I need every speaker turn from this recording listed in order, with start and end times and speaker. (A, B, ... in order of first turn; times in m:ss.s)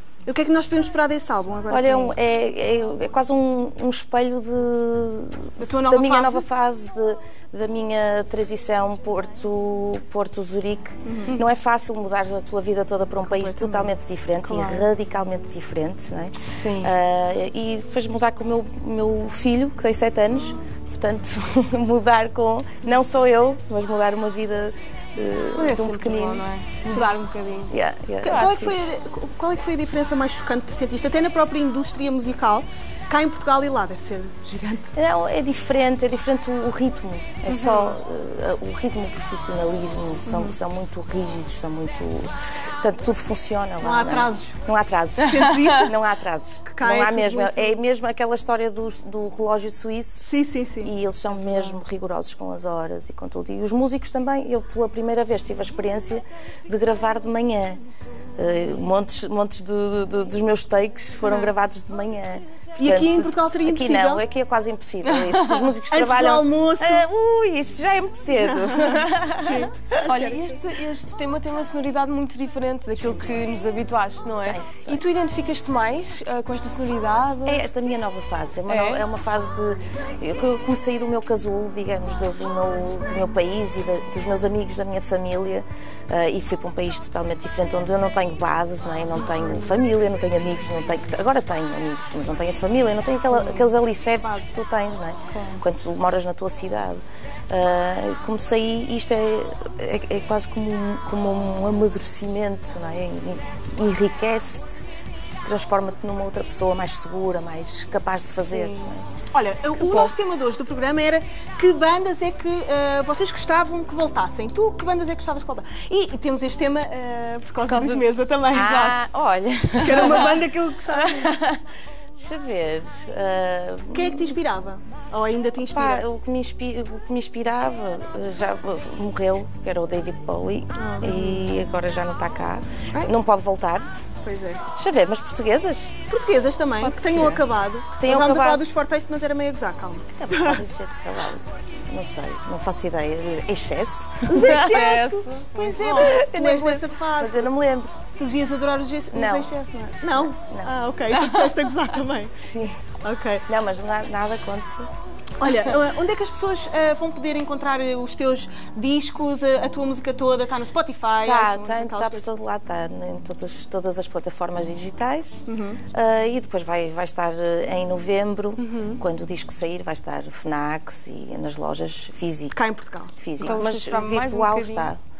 0:00.2-0:02.2 A
0:01.7-0:26.4 B
0:05.6-0:06.4 A
0:11.0-0:11.4 A
0:13.2-0:13.9 A
0:14.4-0:14.8 C
0:16.4-0:16.9 C
0:25.5-0:27.7 C
0:27.7-0:28.9 B
0:28.2-0:34.9 A
0:28.2-0:28.5 C
0:34.9-0:50.3 B
0:37.5-0:37.9 A
0:40.2-0:40.6 A
0:43.8-0:44.6 A
0:45.2-0:45.9 A
0:46.6-0:47.8 A
0:50.2-0:50.9 A
0:50.8-0:57.8 B
0:58.4-1:10.1 B
1:01.2-1:01.5 A
1:02.8-1:04.2 A
1:05.1-1:05.7 C
1:05.9-1:07.0 A
1:08.3-1:10.4 A
1:10.0-1:17.6 C
1:14.4-1:15.0 B
1:17.4-1:44.8 B
1:18.7-1:19.0 C
1:29.4-1:29.6 A
1:33.3-1:34.5 A
1:45.4-1:49.1 B
1:48.5-1:59.0 A
1:49.8-1:50.1 C
1:57.6-1:58.0 C
1:58.5-2:01.6 B
1:59.8-2:00.1 C
1:59.8-2:01.3 A
2:02.2-2:04.4 B
2:03.9-2:06.0 A
2:05.6-2:13.9 B
2:10.8-2:11.5 A
2:14.2-2:14.6 A
2:14.7-2:16.0 B
2:16.1-2:20.6 A
2:16.8-2:17.3 C
2:17.0-2:18.6 B
2:20.1-2:24.8 B
2:24.3-2:27.5 A
2:24.3-2:26.2 C
2:25.9-2:28.0 B
2:28.2-2:32.4 A
2:29.1-2:29.5 B
2:30.2-2:30.7 B
2:31.1-2:31.8 C
2:32.4-2:32.8 B
2:33.0-2:33.5 A
2:33.5-2:34.9 B
2:35.4-2:42.3 A
2:41.2-2:52.6 B
2:45.5-2:45.8 A
2:48.6-2:49.0 C
2:52.5-2:53.6 A
2:53.2-2:55.0 B
2:53.4-2:54.9 C